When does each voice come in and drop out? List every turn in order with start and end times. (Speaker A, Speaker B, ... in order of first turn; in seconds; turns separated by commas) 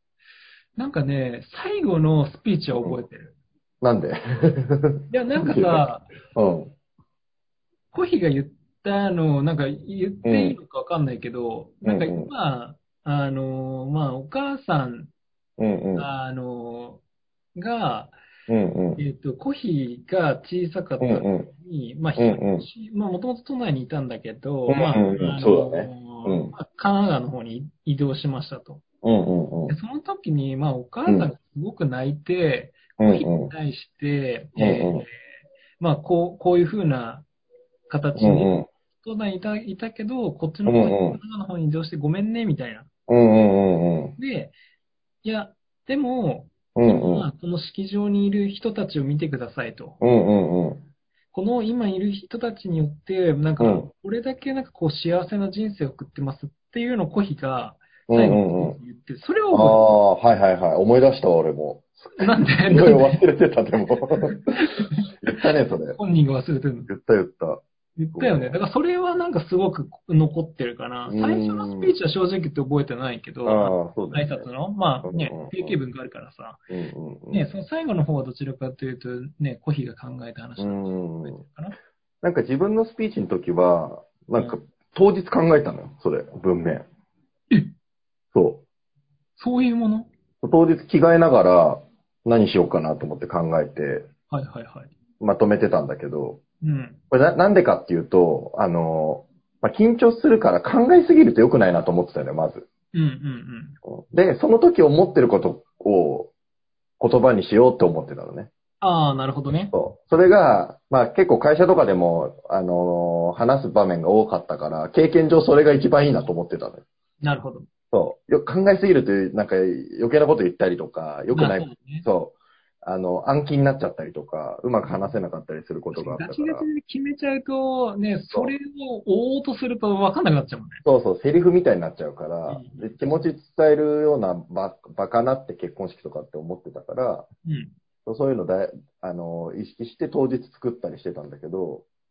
Speaker A: 0.8-3.3, Speaker B: 3.8-6.7, Speaker A: 5.1-6.1, Speaker A: 7.9-15.1, Speaker B: 10.2-10.6, Speaker B: 11.8-12.3, Speaker B: 15.6-16.1, Speaker A: 16.0-17.0, Speaker A: 17.5-18.1, Speaker B: 18.5-19.0, Speaker A: 19.0-28.8, Speaker B: 21.0-21.5, Speaker B: 22.2-22.7, Speaker B: 24.7-26.5, Speaker B: 29.0-29.7, Speaker A: 29.7-35.1, Speaker B: 33.0-33.5, Speaker B: 34.5-35.0, Speaker A: 35.8-37.2, Speaker A: 37.9-42.9, Speaker B: 38.1-38.7, Speaker B: 40.6-41.2, Speaker B: 43.1-44.1, Speaker A: 44.2-44.5, Speaker A: 45.2-50.0, Speaker B: 46.7-47.3, Speaker B: 50.0-50.8, Speaker A: 51.3-59.9, Speaker B: 53.6-53.9, Speaker B: 58.1-58.8, Speaker B: 59.5-66.0, Speaker A: 62.2-63.2, Speaker A: 64.2-65.0, Speaker A: 66.0-66.9, Speaker B: 66.9-67.6, Speaker A: 68.0-76.6, Speaker B: 68.1-68.6, Speaker B: 71.1-71.9, Speaker B: 73.4-74.5, Speaker B: 75.0-75.8, Speaker B: 76.7-77.5, Speaker A: 77.3-81.8, Speaker B: 80.6-81.4, Speaker B: 82.2-86.8, Speaker B: 88.3-88.6, Speaker A: 89.4-90.1, Speaker B: 90.4-94.1, Speaker A: 94.3-94.9, Speaker B: 95.2-96.4, Speaker A: 96.6-97.0, Speaker B: 97.1-102.7, Speaker A: 102.9-103.8, Speaker B: 103.9-106.3, Speaker B: 107.0-108.5, Speaker A: 108.8-109.7, Speaker B: 109.7-116.8, Speaker A: 117.2-117.7, Speaker B: 117.9-126.7, Speaker A: 121.3-122.0, Speaker A: 125.9-130.8, Speaker B: 130.8-137.3, Speaker A: 132.5-133.2, Speaker A: 137.4-137.7, Speaker B: 138.1-141.8